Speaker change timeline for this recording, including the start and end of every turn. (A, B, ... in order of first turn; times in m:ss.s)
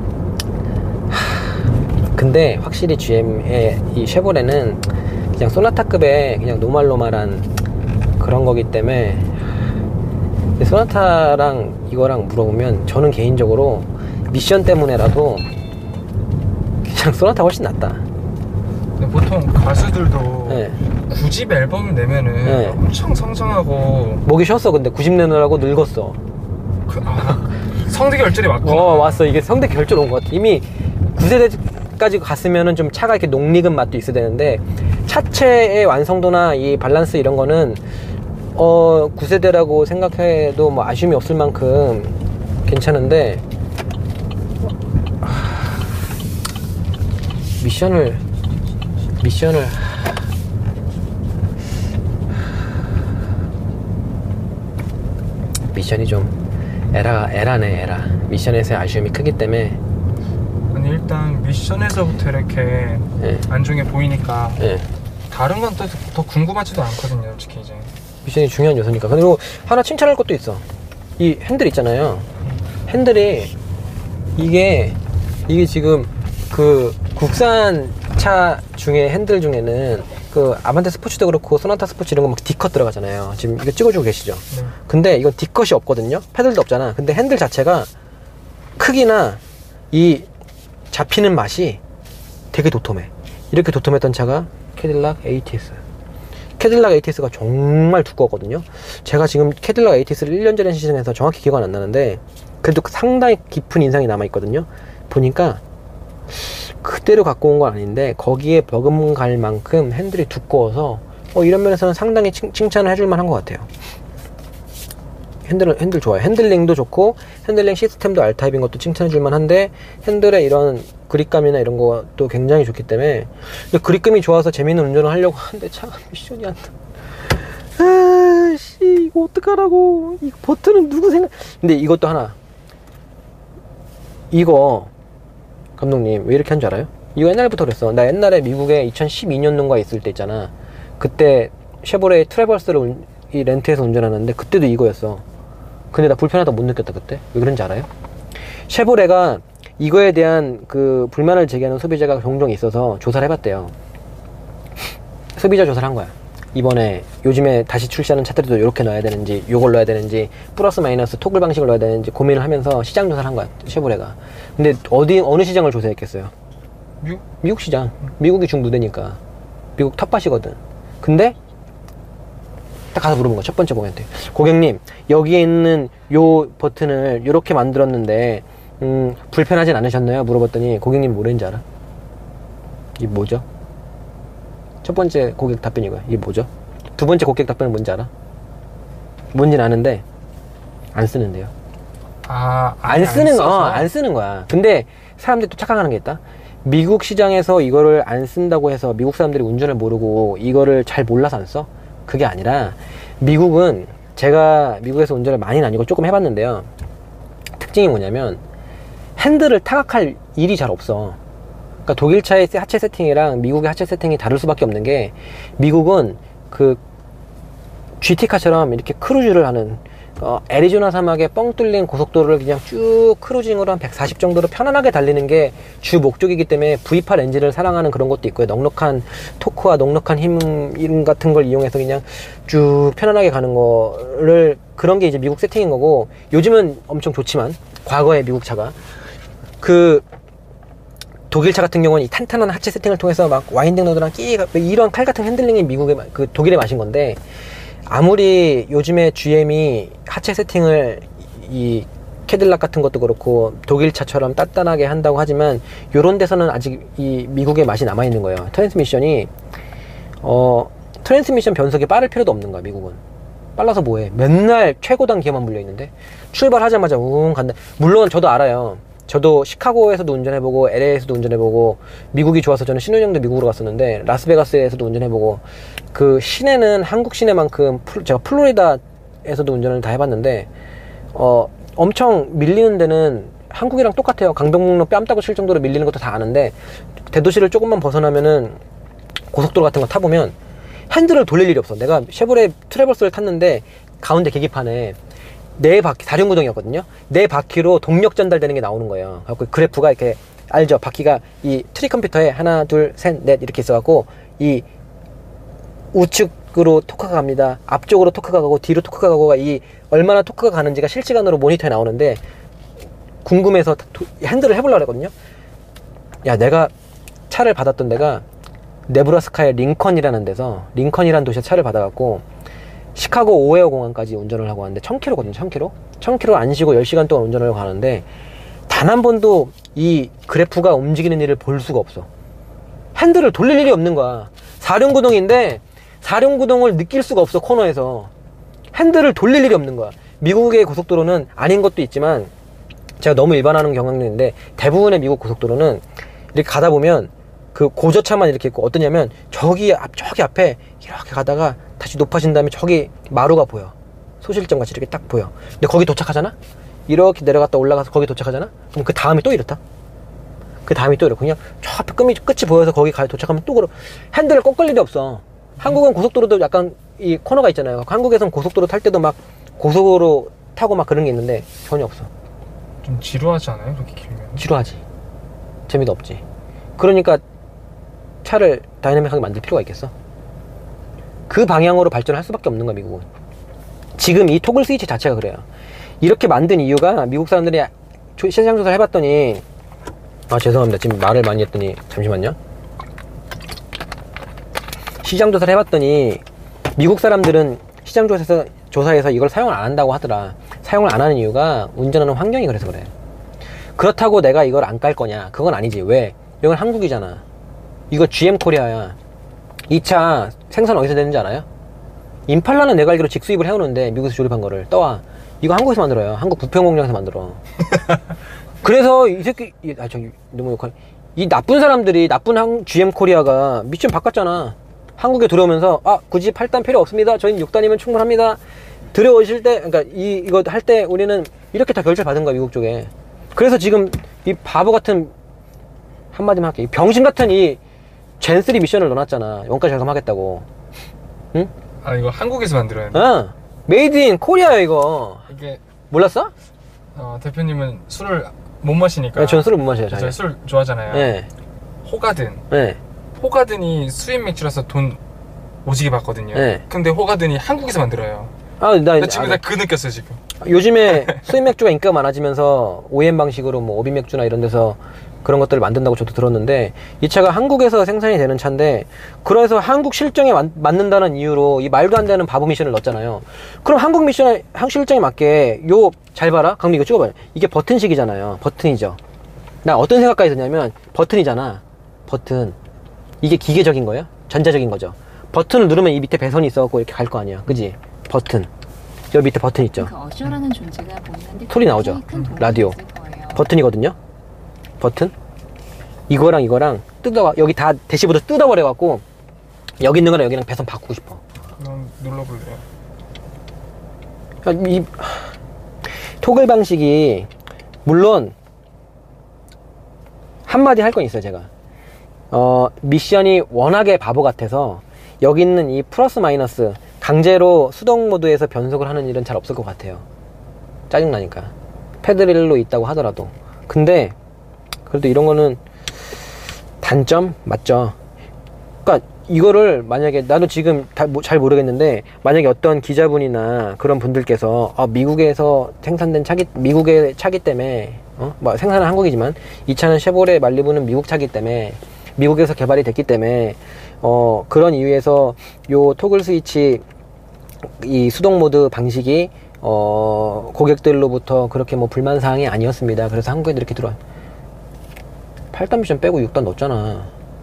0:01.1-0:01.6 A
0:02.1-0:04.8 A
0:05.4-0:07.5 A
0:08.2-0:09.3 A
0:10.6-0:15.5 A
0:16.8-0:18.0 A
0:19.0-0:24.2 B
0:20.5-0:20.8 A
0:22.4-0:22.8 A
0:24.2-0:26.2 A
0:26.9-0:29.3 B
0:28.6-0:37.8 A
0:38.5-0:43.4 A
0:45.2-0:45.6 A
0:47.6-0:48.2 A
0:49.2-0:50.1 A
0:55.7-0:56.3 A
0:56.9-0:59.8 A
1:00.7-1:04.6 B
1:03.2-1:03.4 A
1:04.6-1:04.8 A
1:05.3-1:07.9 B
1:08.2-1:10.6 A
1:11.2-1:12.3 A
1:12.9-1:13.5 A
1:14.4-1:27.9 A
1:28.8-1:29.4 A
1:29.9-1:30.3 A
1:30.9-1:31.8 A
1:32.5-1:35.8 A
1:36.6-1:45.6 A
1:46.3-1:53.7 A
1:55.4-2:06.7 A
2:07.8-2:12.3 A
2:14.3-2:14.9 A
2:15.8-2:25.2 A
2:25.9-2:27.9 A
2:28.7-2:33.7 A
2:35.4-2:46.3 A
2:47.4-2:49.2 A
2:49.8-2:51.4 A
2:52.9-3:01.6 A
3:03.0-3:03.4 A
3:04.8-3:08.1 A
3:09.3-3:10.0 A
3:10.9-3:11.5 A
3:12.2-3:13.9 B
3:12.8-3:26.7 A
3:27.6-3:28.4 A
3:29.2-3:31.2 A
3:31.8-3:36.8 A
3:38.0-3:58.8 A
3:59.6-4:00.0 A
4:01.3-4:07.2 A
4:07.9-4:19.3 A
4:20.2-4:23.0 A
4:23.6-4:35.4 A
4:35.9-4:40.5 A
4:41.1-4:46.5 A
4:47.1-4:48.6 A
4:49.3-4:50.3 A
4:50.9-4:55.0 A
4:55.6-5:04.6 A
5:05.9-5:12.2 A
5:13.2-5:15.1 A
5:16.2-5:16.7 A
5:17.3-5:18.2 A
5:18.9-5:22.2 A
5:22.9-5:28.0 A
5:28.7-5:32.1 A
5:32.9-5:38.1 A
5:38.7-5:42.3 A
5:43.0-5:56.3 A
5:56.9-5:59.6 A
6:00.6-6:12.1 A
6:12.8-6:14.4 B
6:14.4-6:14.8 A
6:15.7-6:16.2 A
6:16.8-6:17.2 A
6:18.2-6:19.9 A
6:21.3-6:23.0 A
6:24.0-6:25.4 A
6:26.0-6:29.4 A
6:30.3-6:32.4 A
6:35.0-6:36.2 A
6:36.8-6:42.9 A
6:43.8-6:47.2 A
6:47.9-6:49.0 A
6:49.7-6:51.4 A
6:52.3-6:57.4 A
6:58.6-7:08.4 A
7:08.9-7:15.1 A
7:16.1-7:17.6 A
7:18.2-7:20.4 A
7:21.8-7:23.1 B
7:22.9-7:25.3 A
7:25.3-7:25.6 B
7:25.9-7:26.3 A
7:26.9-7:31.1 B
7:29.2-7:30.2 A
7:30.9-7:31.3 A
7:31.8-7:32.4 B
7:32.5-7:32.8 A
7:33.1-7:35.0 B
7:35.6-7:38.3 B
7:36.3-7:36.6 A
7:38.6-7:39.4 A
7:39.0-7:40.2 B
7:40.4-7:59.0 A
7:59.6-8:02.6 A
8:03.2-8:08.5 A
8:09.1-8:09.9 A
8:09.8-8:13.5 C
8:11.5-8:12.8 A
8:12.1-8:12.4 B
8:13.3-8:14.0 A
8:14.8-8:15.1 A
8:16.1-8:19.0 A
8:19.8-8:21.2 A
8:21.6-8:22.6 B
8:24.4-8:25.3 A
8:26.2-8:27.3 A
8:27.8-8:28.3 A
8:30.5-8:31.5 A
8:32.3-8:40.0 A
8:40.9-8:44.1 A
8:44.9-8:45.6 A
8:46.8-8:47.9 A
8:48.8-9:06.8 A
9:07.8-9:14.0 A
9:15.5-9:17.1 A